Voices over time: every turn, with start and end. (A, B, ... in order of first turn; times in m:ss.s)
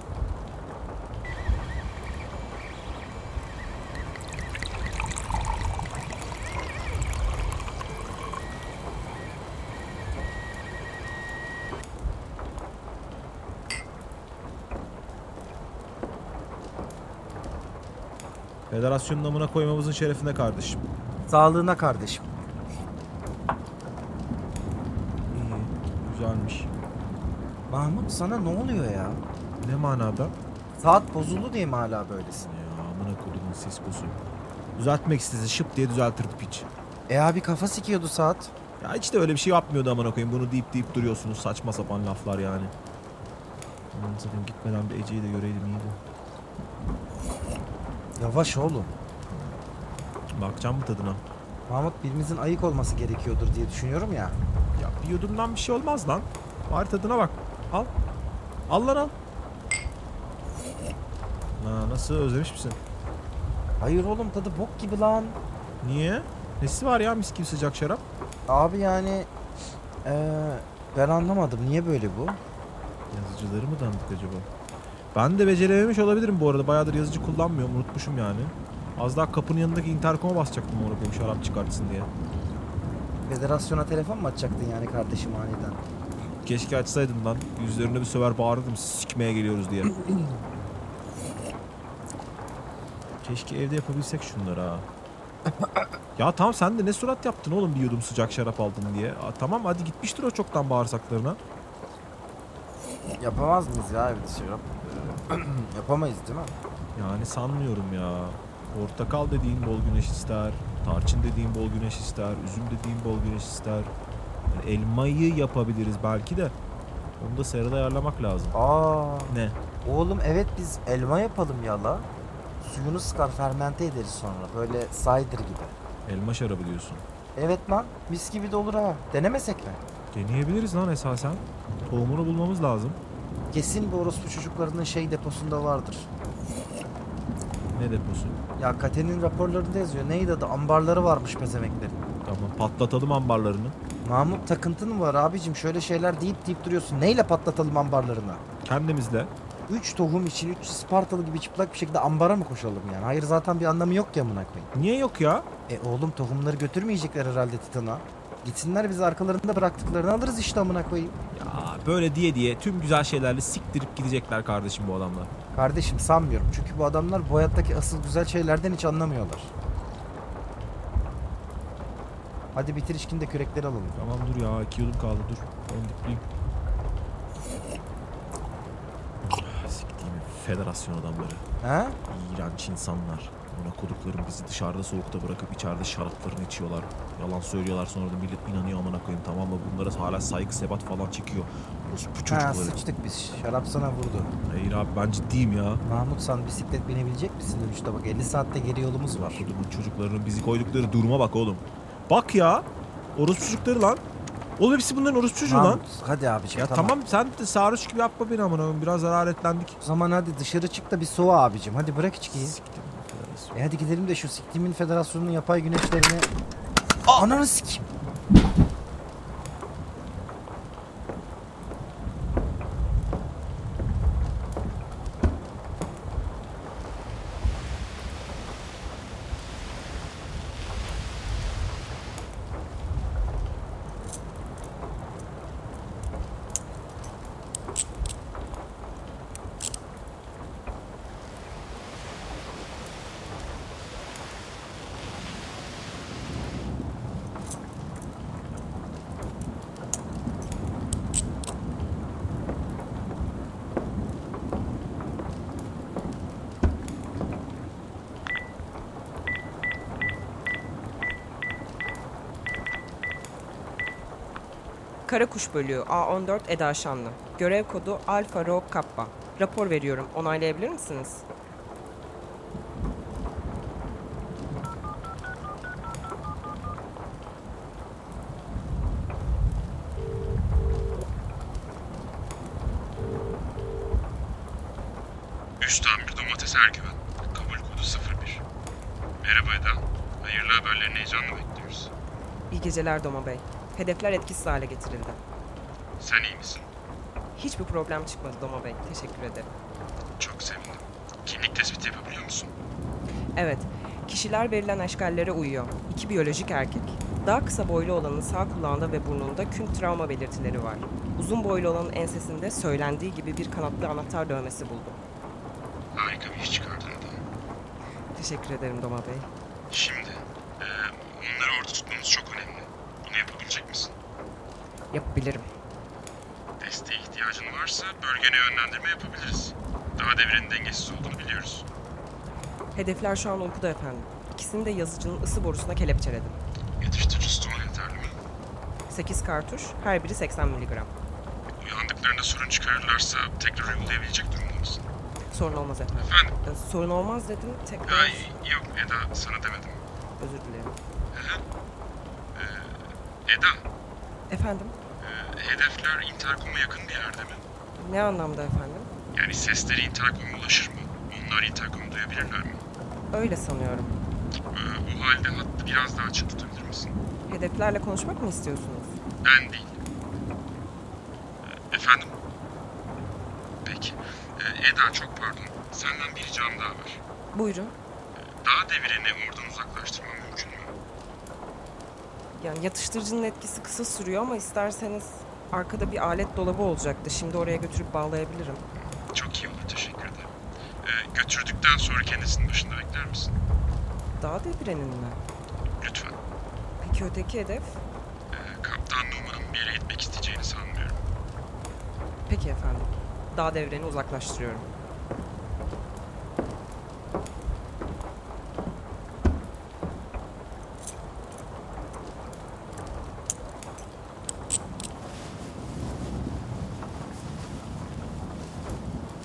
0:18.7-0:20.8 A
0:21.3-0:22.2 B
0:25.3-0:26.7 A
0:27.7-0:29.2 B
0:29.6-0:30.3 A
0:30.8-0:32.5 B
0:32.4-0:34.2 A
0:34.8-0:36.7 A
0:37.1-0:38.5 B
0:38.8-0:42.7 A
0:43.9-0:46.0 A
0:48.2-0:48.9 B
0:49.3-0:49.6 A
0:50.4-0:51.2 A
0:51.7-0:54.4 B
0:54.7-0:57.9 A
0:58.7-0:59.1 A
1:01.6-1:02.8 A
1:03.8-1:05.4 B
1:05.8-1:08.0 A
1:08.5-1:09.3 B
1:10.0-1:12.4 B
1:13.1-1:14.5 A
1:15.1-1:22.1 A
1:23.3-1:25.8 B
1:26.4-1:29.9 A
1:33.2-1:34.9 A
1:36.2-1:41.4 A
1:43.2-1:46.5 B
1:46.9-1:53.9 A
1:54.5-1:56.5 A
1:57.2-1:58.6 A
1:58.5-2:02.1 B
1:59.3-1:59.6 A
2:02.6-2:05.7 B
2:06.0-2:07.0 A
2:07.4-2:09.8 B
2:10.1-2:13.0 A
2:13.5-2:16.1 B
2:17.7-2:18.4 A
2:18.6-2:22.0 B
2:22.2-2:23.8 A
2:24.0-2:28.4 B
2:28.6-2:29.3 A
2:29.7-2:34.7 B
2:34.7-2:35.5 A
2:35.7-2:41.2 B
2:41.3-2:45.3 A
2:45.5-2:49.5 B
2:52.5-2:54.0 B
2:53.9-2:56.2 A
2:59.2-3:01.4 A
3:01.6-3:02.0 B
3:02.1-3:12.8 A
3:12.3-3:14.3 B
3:14.5-3:15.8 A
3:15.8-3:19.4 B
3:19.1-3:24.0 A
3:24.6-3:25.8 A
3:25.4-3:26.9 B
3:26.6-3:29.8 A
3:29.8-3:32.5 B
3:32.3-3:33.5 A
3:33.5-3:36.3 B
3:37.1-3:37.9 B
4:25.0-4:31.2 C
4:45.6-4:48.4 D
4:49.2-4:51.9 D
4:52.5-4:55.2 C
4:56.0-4:56.6 D
4:57.3-4:59.5 C
5:00.2-5:02.5 D
5:03.4-5:15.0 C
5:16.0-5:17.2 D
5:18.1-5:19.3 C
5:19.7-5:23.9 D
5:24.9-5:25.5 C
5:26.6-5:31.6 D
5:32.7-5:36.4 C
5:36.8-5:38.1 D
5:38.9-5:40.9 C
5:41.6-5:44.8 D
5:45.3-5:48.3 C
5:46.0-5:46.3 D
5:47.8-5:49.8 D
5:50.2-5:50.8 C
5:51.1-5:51.4 D
5:52.3-5:52.7 D
5:53.3-5:53.6 D
5:54.3-5:54.8 C
5:55.0-5:57.4 D
5:57.8-5:58.9 C
5:59.1-6:02.6 D
6:03.1-6:04.0 C
6:04.5-6:06.9 D
6:07.3-6:09.0 C
6:09.2-6:09.7 D
6:11.7-6:12.1 D
6:13.6-6:17.0 D
6:17.3-6:17.7 C
6:18.4-6:20.7 D
6:22.3-6:28.6 C
6:29.1-6:30.3 D
6:30.8-6:33.3 D
6:34.2-6:35.2 C
6:35.8-6:36.1 D
6:36.8-6:37.8 C
6:38.3-6:41.0 D
6:42.3-6:44.7 C